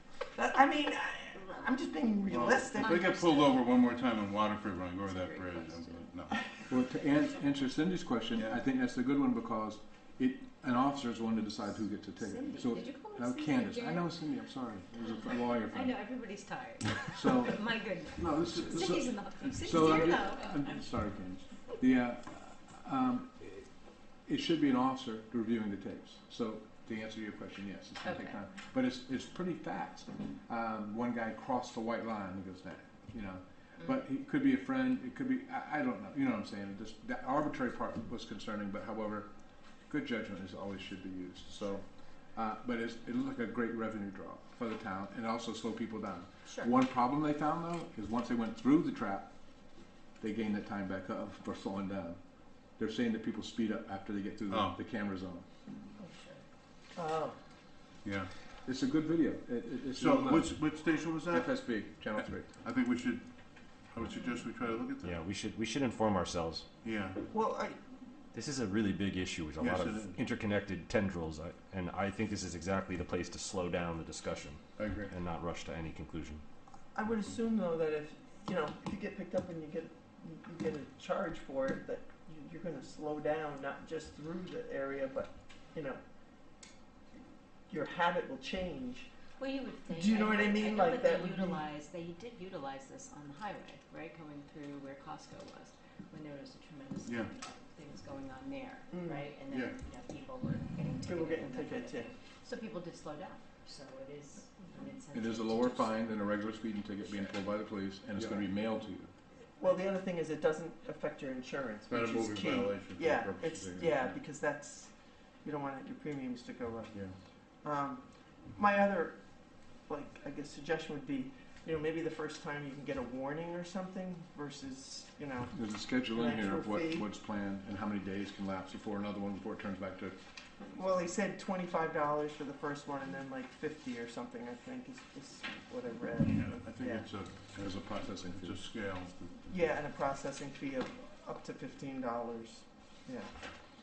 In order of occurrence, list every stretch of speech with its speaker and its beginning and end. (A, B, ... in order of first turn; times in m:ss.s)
0:00.4-0:03.2 A
0:02.3-0:06.4 B
0:02.8-0:03.6 C
0:05.1-0:06.1 C
0:06.7-0:16.0 D
0:12.2-0:14.1 C
0:15.0-0:20.5 C
0:17.1-0:55.4 D
0:28.0-0:28.4 C
0:46.4-0:46.7 C
0:54.5-0:54.8 B
0:56.0-0:56.4 C
0:56.9-0:57.4 A
0:58.0-0:58.3 B
0:58.6-1:02.5 D
1:00.0-1:05.2 B
1:05.0-1:06.7 E
1:06.8-1:07.2 B
1:07.3-1:07.8 A
1:08.3-1:16.4 E
1:09.6-1:10.2 B
1:14.8-1:15.1 B
1:16.9-1:26.0 A
1:27.7-1:29.1 A
1:29.4-1:46.1 C
1:29.9-1:31.6 A
1:37.0-1:37.3 B
1:38.9-1:39.3 A
1:39.5-1:39.8 B
1:41.0-1:42.1 A
1:45.1-1:49.1 D
1:48.1-1:48.5 B
1:49.6-2:07.1 A
1:51.9-1:54.2 B
2:05.5-2:10.2 D
2:10.7-2:17.1 A
2:16.2-2:19.7 B
2:17.5-2:18.6 D
2:19.5-2:23.3 A